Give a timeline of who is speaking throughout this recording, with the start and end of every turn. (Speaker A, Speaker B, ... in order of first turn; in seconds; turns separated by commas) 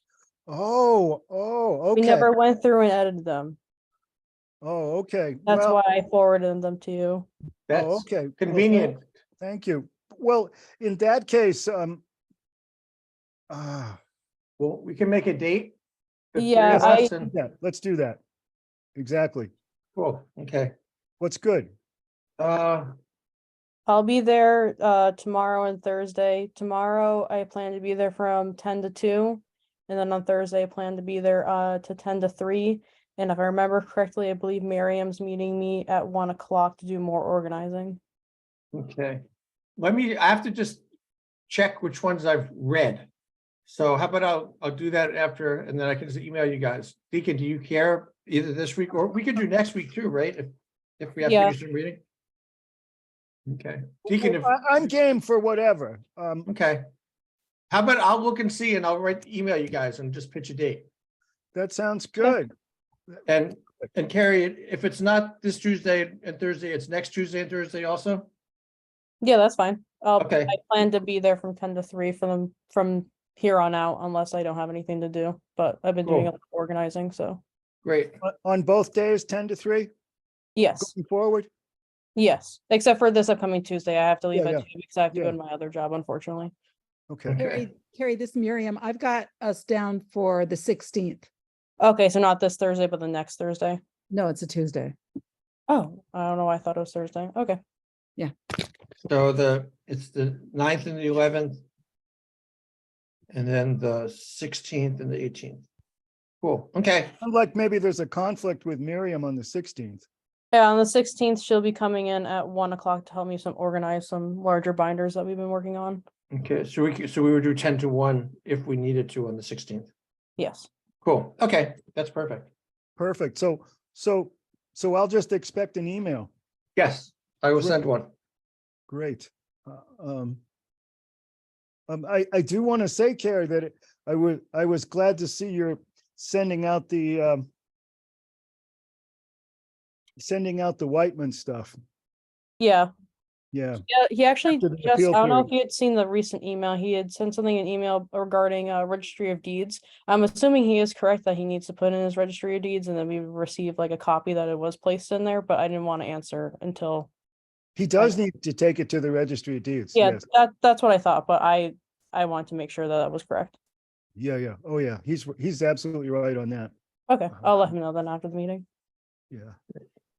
Speaker A: 0.5-2.3, Speaker B: 1.9-3.6, Speaker A: 4.6-5.8, Speaker B: 5.5-7.3, Speaker C: 7.7-9.0, Speaker A: 7.7-12.0, Speaker A: 13.5-14.0, Speaker C: 14.6-15.8, Speaker C: 16.3-17.3, Speaker B: 16.4-17.1, Speaker A: 16.7-18.2, Speaker A: 19.0-19.5, Speaker C: 20.0-20.7, Speaker A: 21.2-21.7, Speaker C: 22.4-22.9, Speaker B: 23.9-38.0, Speaker C: 38.7-39.2, Speaker C: 39.8-40.8, Speaker C: 41.5-43.1, Speaker C: 43.7-52.0, Speaker B: 51.2-51.5, Speaker C: 53.5-54.9, Speaker A: 54.1-56.5, Speaker C: 56.5-56.8, Speaker C: 57.7-60.9, Speaker A: 61.5-62.5, Speaker C: 63.3-68.3, Speaker B: 69.2-77.4, Speaker C: 70.2-70.5, Speaker C: 76.0-76.3, Speaker C: 77.8-78.1, Speaker A: 78.2-79.9, Speaker B: 80.6-80.9, Speaker A: 80.8-81.5, Speaker B: 82.2-86.5, Speaker A: 84.3-85.4, Speaker A: 87.1-87.4, Speaker C: 87.3-87.7, Speaker D: 87.4-91.3, Speaker B: 91.8-93.8, Speaker D: 94.1-95.0, Speaker B: 95.7-97.6, Speaker C: 99.1-101.6, Speaker C: 103.3-105.7, Speaker C: 106.4-107.1, Speaker A: 107.2-110.0, Speaker B: 110.5-116.0, Speaker C: 116.3-119.9, Speaker B: 120.4-120.7, Speaker C: 121.0-122.5, Speaker A: 123.0-126.3, Speaker C: 126.8-128.1, Speaker A: 128.9-130.4, Speaker A: 131.9-137.5, Speaker A: 140.2-141.8, Speaker B: 142.6-142.9, Speaker A: 143.5-143.8, Speaker B: 143.9-157.1, Speaker A: 144.5-145.5, Speaker A: 157.8-160.2, Speaker B: 159.9-163.6, Speaker A: 164.2-166.7, Speaker B: 167.1-168.7, Speaker A: 169.3-169.6